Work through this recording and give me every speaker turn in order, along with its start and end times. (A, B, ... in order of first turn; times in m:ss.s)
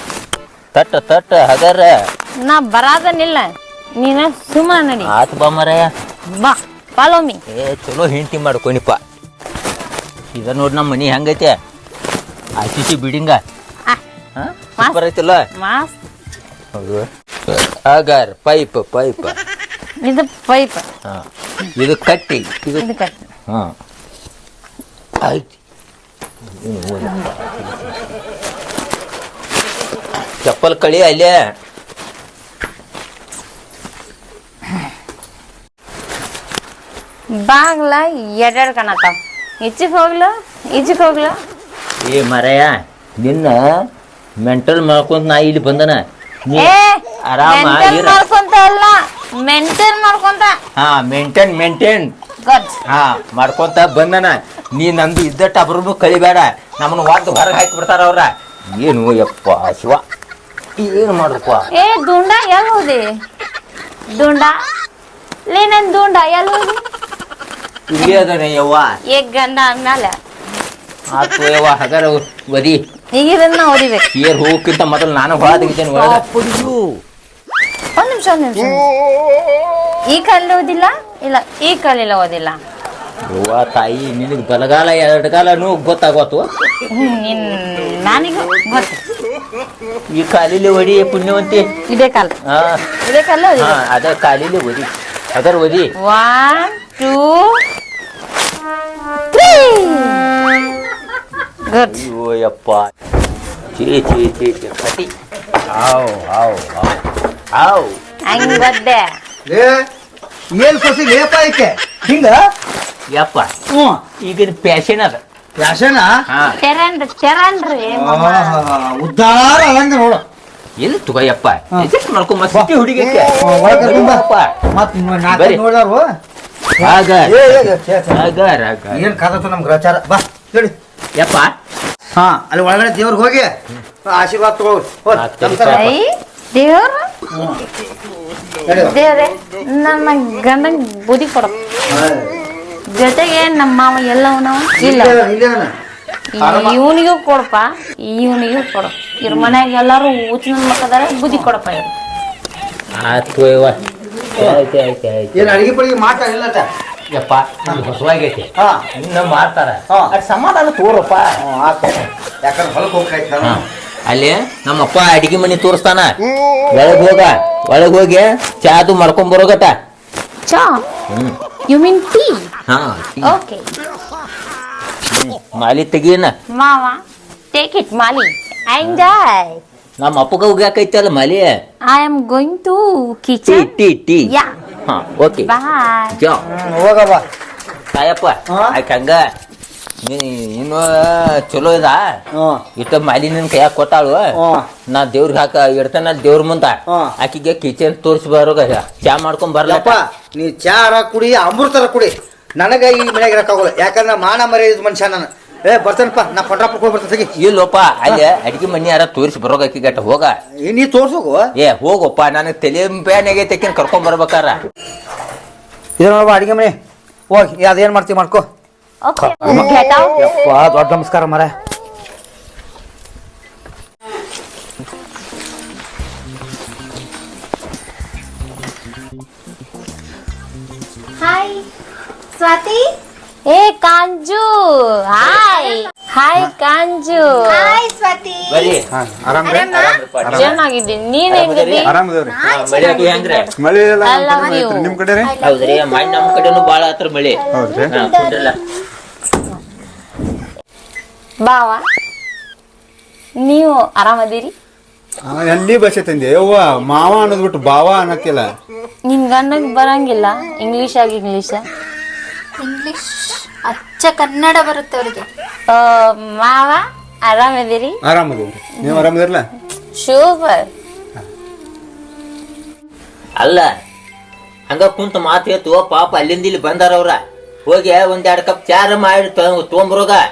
0:00.7-0:02.0 A
0:02.4-0:05.1 B
0:05.0-0:05.9 A
0:06.3-0:07.4 B
0:07.5-0:09.0 A
0:10.3-0:11.6 A
0:12.6-0:13.4 A
0:14.4-0:15.5 A
0:15.5-0:16.0 B
0:16.7-0:19.4 A
0:20.0-0:20.9 B
0:21.8-0:22.9 A
0:22.8-0:23.2 B
0:23.5-0:23.7 A
0:25.2-0:25.5 A
0:26.6-0:28.1 A
0:30.4-0:31.3 A
0:37.4-0:41.4 B
0:42.0-0:43.6 A
0:44.4-0:46.7 A
0:46.6-0:50.6 B
0:47.2-0:48.2 A
0:50.8-0:52.1 A
0:52.4-0:52.8 B
0:52.9-1:00.0 A
1:00.8-1:01.7 A
1:01.7-1:03.1 B
1:04.1-1:04.6 B
1:05.5-1:06.8 B
1:07.9-1:09.0 A
1:08.0-1:08.2 B
1:09.1-1:10.2 B
1:11.1-1:12.8 A
1:13.1-1:14.1 B
1:14.1-1:16.8 A
1:18.0-1:18.9 B
1:20.1-1:22.6 B
1:23.3-1:26.5 A
1:26.9-1:29.0 B
1:30.1-1:31.7 A
1:31.9-1:32.3 B
1:32.4-1:32.8 A
1:33.0-1:33.8 B
1:33.6-1:35.9 A
1:36.0-1:37.6 B
1:39.3-1:40.3 B
1:41.7-1:42.1 B
1:41.9-1:42.9 A
1:43.7-1:45.1 A
1:45.7-1:47.0 A
1:47.5-1:48.0 A
1:48.3-1:49.1 B
1:49.5-1:49.8 C
1:50.6-1:52.5 C
1:53.1-1:53.5 A
1:53.7-1:54.0 C
1:54.2-1:55.2 A
1:55.6-1:56.1 C
1:56.3-1:56.6 A
1:56.6-1:58.6 B
1:57.9-2:00.2 C
2:00.8-2:04.5 A
2:03.4-2:06.2 C
2:05.3-2:05.6 A
2:06.8-2:07.5 A
2:06.8-2:08.2 C
2:08.1-2:09.2 A
2:08.9-2:10.8 C
2:11.2-2:11.6 A
2:12.2-2:13.5 C
2:14.0-2:15.9 C
2:15.1-2:15.9 A
2:15.7-2:17.1 B
2:17.3-2:17.6 C
2:18.7-2:19.0 C
2:18.9-2:21.5 B
2:21.9-2:22.4 C
2:22.9-2:25.2 B
2:24.8-2:25.7 C
2:26.4-2:32.0 B
2:26.4-2:26.8 C
2:32.9-2:33.8 A
2:34.4-2:35.6 A
2:35.3-2:36.7 C
2:37.1-2:41.4 A
2:38.6-2:38.8 C
2:41.4-2:43.6 C
2:43.4-2:46.2 A
2:46.7-2:49.8 A
2:50.5-2:50.8 B
2:51.1-2:51.4 A
2:51.7-2:52.5 B
2:52.7-2:53.4 A
2:53.2-2:53.7 B
2:55.1-2:56.3 A
2:56.5-2:57.0 B
2:57.5-2:59.6 B
3:00.0-3:01.5 A
3:01.8-3:03.7 B
3:03.5-3:04.3 A
3:04.9-3:05.5 A
3:05.4-3:06.2 B
3:06.2-3:06.4 A
3:06.4-3:07.3 C
3:07.9-3:09.2 A
3:08.5-3:08.8 C
3:10.0-3:12.1 A
3:12.3-3:12.6 C
3:12.8-3:14.4 A
3:14.4-3:14.7 C
3:14.9-3:20.0 A
3:16.9-3:17.1 C
3:19.7-3:27.3 C
3:27.4-3:30.4 A
3:30.6-3:31.5 C
3:31.6-3:34.6 A
3:36.0-3:36.8 C
3:37.3-3:38.5 C
3:39.0-3:40.2 B
3:39.2-3:41.5 C
3:51.2-3:51.6 D
3:52.4-3:52.9 D
3:53.5-3:57.8 B
3:57.5-3:58.8 D
3:58.5-3:58.8 A
3:58.9-4:00.6 E
3:59.4-4:00.6 A
3:59.5-4:00.0 D
4:00.3-4:01.9 B
4:01.3-4:01.9 A
4:01.8-4:02.4 E
4:02.3-4:03.3 D
4:02.4-4:03.5 A
4:03.6-4:05.3 E
4:04.0-4:05.0 B
4:05.2-4:06.2 D
4:05.4-4:08.6 A
4:07.5-4:08.5 D
4:07.5-4:08.0 E
4:11.4-4:11.8 B
4:13.4-4:14.5 B
4:15.3-4:18.5 E
4:19.1-4:21.7 B
4:22.6-4:25.3 D
4:25.7-4:28.0 B
4:28.0-4:29.5 E
4:28.8-4:29.1 B
4:29.9-4:30.7 B
4:33.4-4:33.7 A
4:34.7-4:40.2 A